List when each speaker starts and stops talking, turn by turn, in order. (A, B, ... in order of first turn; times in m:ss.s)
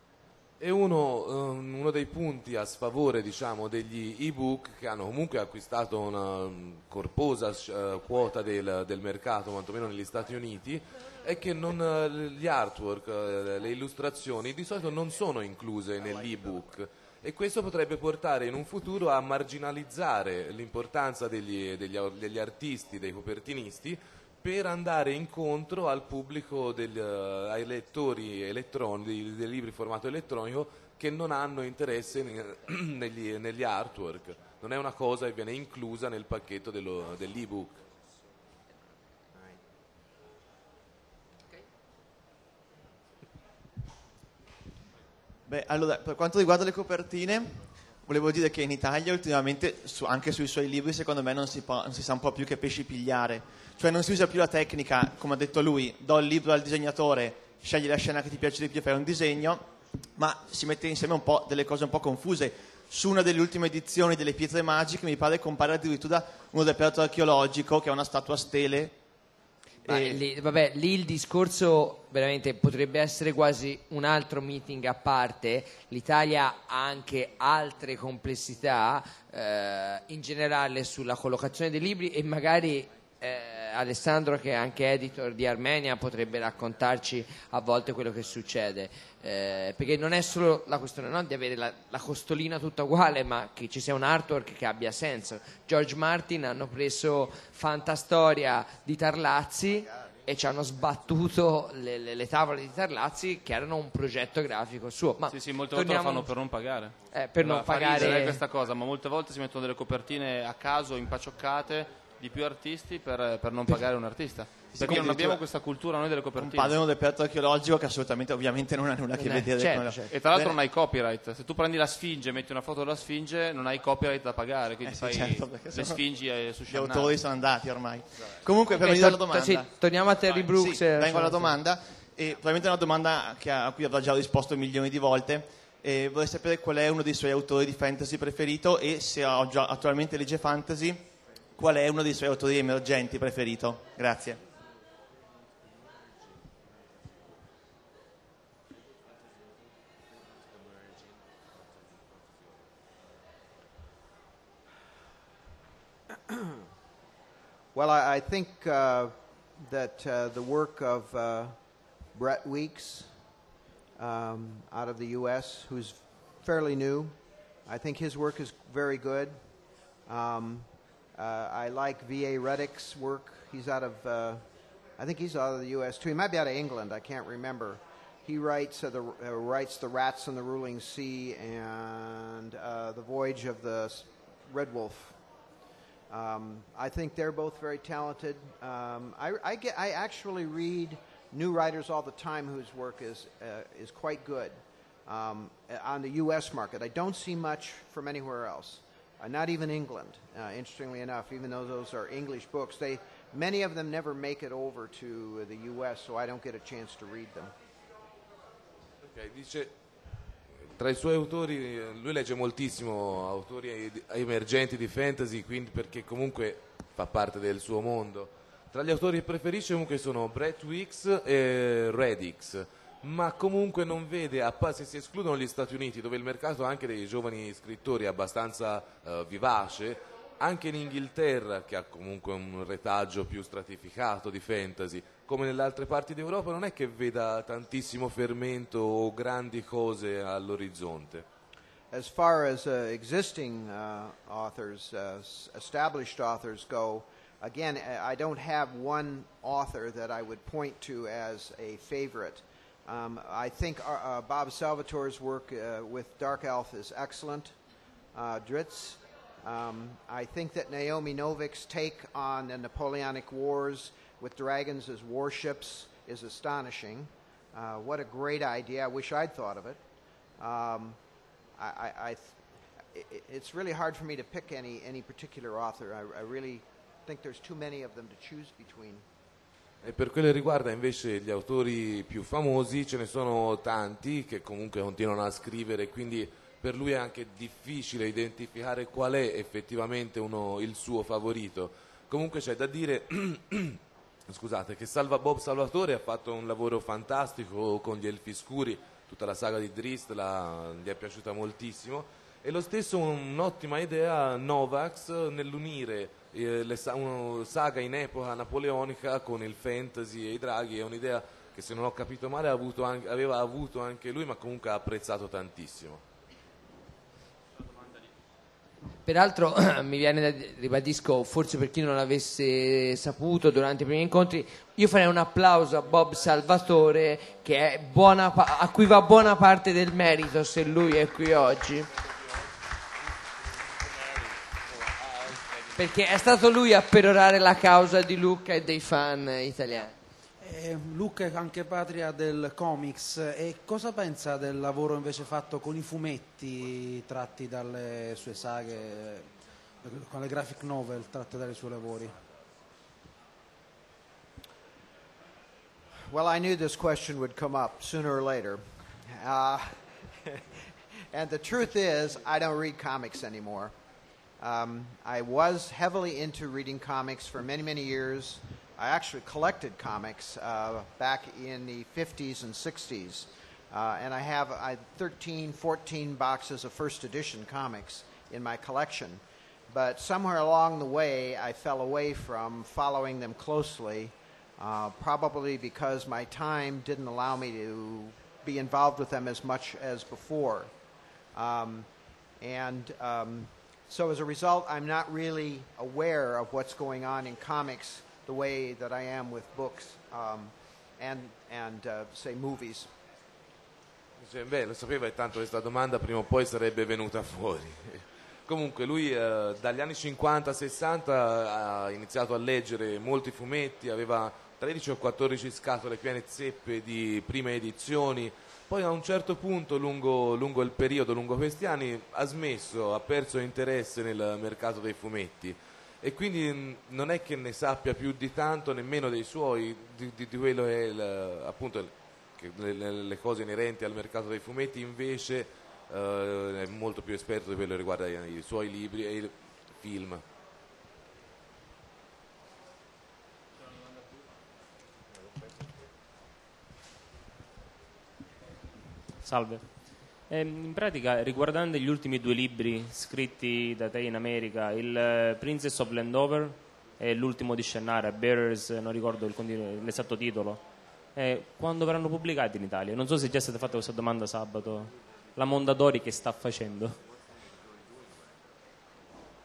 0:00.6-0:37.8 A
0:45.5-1:09.0 B
1:09.8-1:46.3 C
1:09.9-1:10.2 B
1:45.3-1:56.8 D
1:47.1-1:48.4 C
1:54.7-1:55.4 B
1:56.3-2:00.6 B
1:59.1-2:00.1 C
2:00.1-2:07.2 D
2:04.8-2:06.1 B
2:06.7-2:09.7 B
2:08.7-2:11.6 C
2:10.5-2:24.4 B
2:37.7-2:41.5 E
2:42.1-2:43.1 E
2:44.0-2:47.1 E
2:47.6-2:49.3 E
2:50.1-2:54.4 E
2:55.0-3:05.2 E
3:06.1-3:14.5 E
3:15.0-3:27.5 E
3:29.0-3:29.7 A
3:30.8-4:01.2 A
4:01.9-4:17.5 E
4:18.1-4:29.8 E
4:30.4-4:31.0 E
4:31.6-4:32.4 E
4:32.9-4:39.0 E
4:39.8-5:16.0 A
5:19.0-5:31.9 C
5:35.7-5:39.9 C
5:40.4-5:49.3 F
5:49.8-5:52.2 F
5:56.1-6:00.3 E
6:01.1-6:03.7 E
6:04.4-6:30.7 E
6:31.3-6:31.9 E
6:32.4-6:42.9 E
6:44.2-7:20.2 A
7:29.2-7:40.6 G
7:41.2-7:47.0 G